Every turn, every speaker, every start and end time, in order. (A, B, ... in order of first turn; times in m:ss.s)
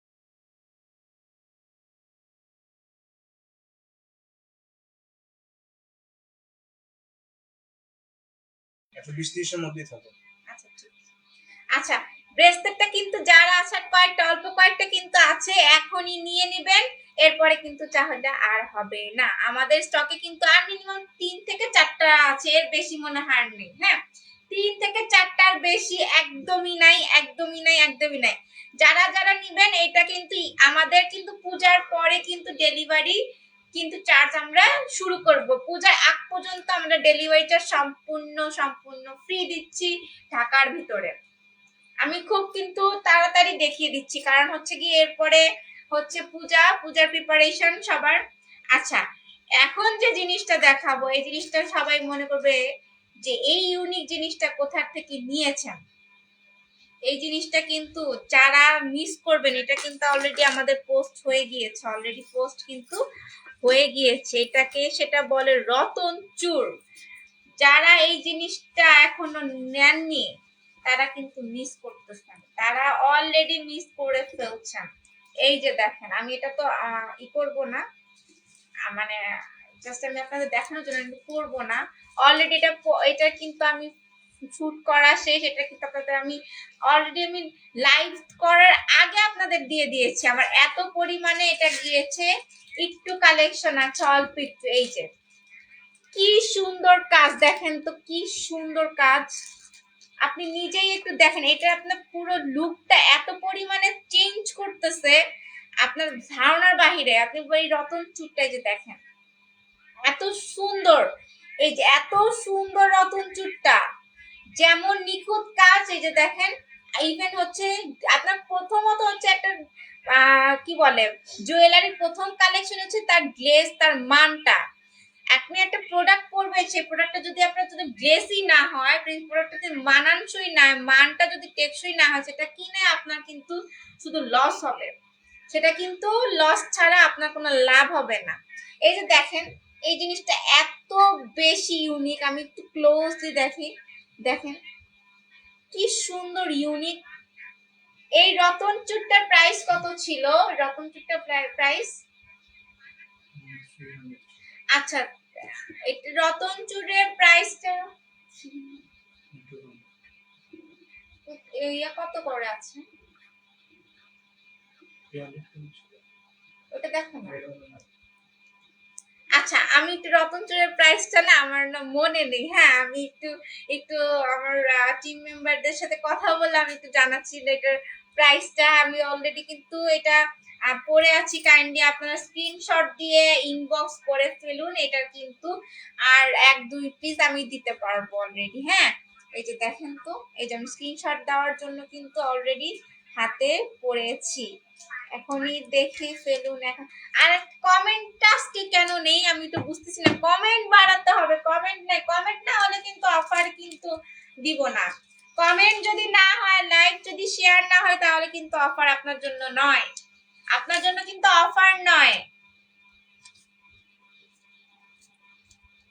0:09.0-0:10.1 A
0:10.5-0:10.9 B
0:11.8-0:24.0 B
0:24.5-0:33.2 B
0:33.7-0:41.1 B
0:42.0-0:48.2 B
0:48.7-0:49.0 B
0:49.6-0:52.6 B
0:53.2-0:55.8 B
0:57.1-1:03.0 B
1:03.6-1:06.7 B
1:07.6-1:10.3 B
1:10.8-1:14.9 B
1:15.4-1:17.8 B
1:18.9-1:19.2 B
1:19.8-1:23.9 B
1:24.5-1:26.4 B
1:26.9-1:32.3 B
1:32.8-1:35.1 B
1:36.1-1:39.3 B
1:40.2-1:45.2 B
1:45.8-1:49.0 B
1:50.1-1:51.1 B
1:51.6-1:53.8 B
1:54.6-1:59.5 B
2:00.1-2:04.6 B
2:05.3-2:14.9 B
2:15.5-2:23.7 B
2:24.2-2:24.6 B
2:25.7-2:27.0 B
2:28.2-2:31.9 B
2:33.4-2:34.4 A
2:34.7-2:35.1 B
2:35.9-2:37.8 B
2:38.4-2:38.8 B
2:39.3-2:39.9 A
2:41.3-2:42.8 B
2:45.1-2:46.0 A
2:46.7-2:47.4 B
2:47.2-2:47.8 A
2:49.4-3:05.5 B
3:06.1-3:14.5 B
3:15.2-3:23.9 B
3:24.4-3:24.9 B
3:25.4-3:29.9 B
3:30.5-3:32.2 B